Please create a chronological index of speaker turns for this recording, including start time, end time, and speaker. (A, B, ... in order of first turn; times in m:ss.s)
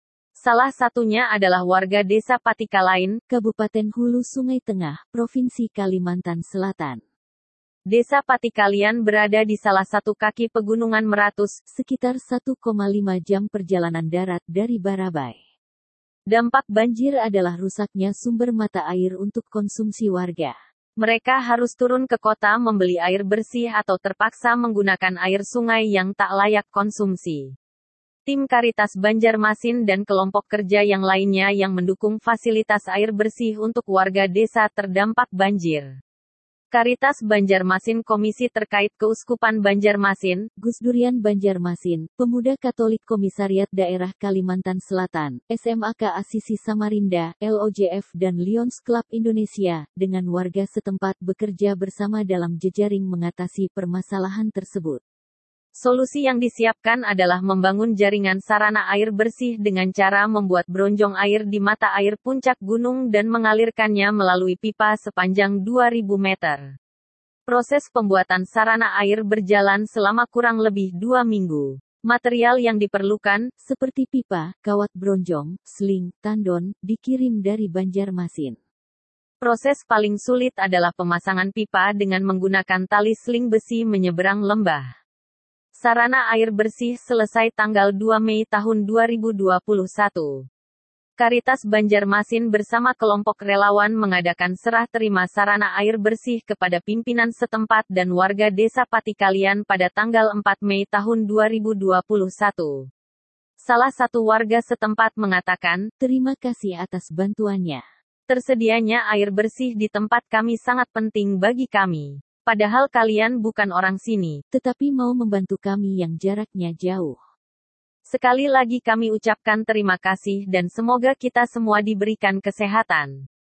0:00.4-0:03.2 A
0:03.3-0:07.0 B
0:07.9-0:11.6 A
0:11.7-0:15.4 B
0:16.3-0:16.9 A
0:16.9-0:20.6 B
0:21.0-0:27.5 A
0:28.3-0:36.0 A
0:36.7-0:40.5 A
0:40.6-0:55.0 B
0:55.8-1:06.7 A
1:07.5-1:13.5 A
1:13.6-1:18.6 B
1:19.4-1:24.9 A
1:25.8-1:30.5 A
1:31.2-1:42.9 A
1:43.6-1:45.9 A
1:46.0-1:47.8 B
1:48.3-1:54.4 A
1:54.5-1:57.2 B
1:58.1-2:03.2 A